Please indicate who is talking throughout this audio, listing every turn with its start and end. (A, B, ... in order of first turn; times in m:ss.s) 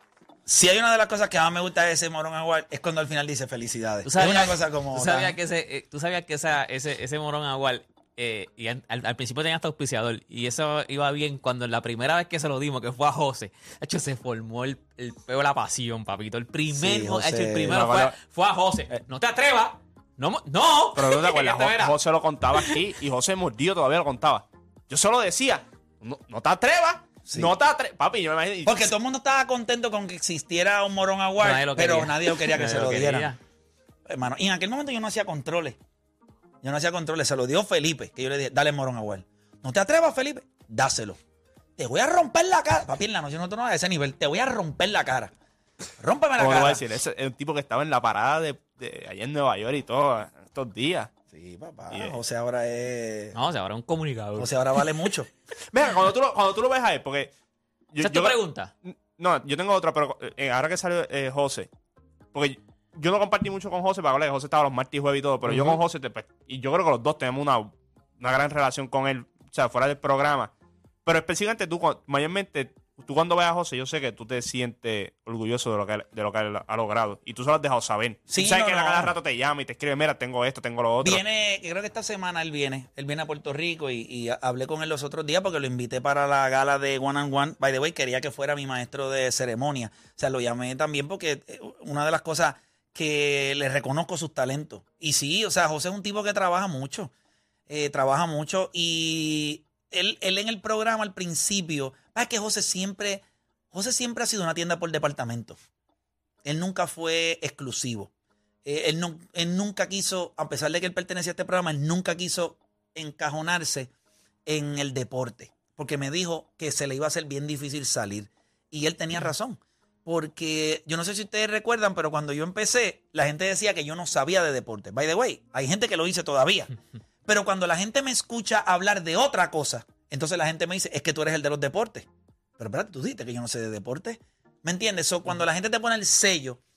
0:00.4-0:05.4 A
0:04.0-0:21.9 B
0:16.7-0:17.8 A
0:17.7-0:18.1 C
0:20.9-0:28.9 C
0:27.2-0:27.5 A
0:28.6-0:33.3 A
0:31.4-0:33.4 B
0:34.1-0:35.8 A
0:36.6-0:41.2 A
0:41.8-0:45.3 A
0:46.0-0:46.8 A
0:46.4-0:51.1 C
0:51.3-0:53.3 A
0:53.3-0:54.5 B
0:54.4-0:55.3 A
0:55.7-0:57.3 C
0:57.9-1:01.7 C
0:58.0-0:58.7 B
1:02.3-1:10.5 C
1:05.5-1:05.8 B
1:11.0-1:21.2 C
1:18.3-1:19.1 A
1:21.0-1:37.1 A
1:37.7-1:45.6 A
1:46.4-1:48.1 A
1:48.6-1:53.9 A
1:54.4-2:06.7 A
2:07.2-2:12.1 A
2:12.6-2:16.6 A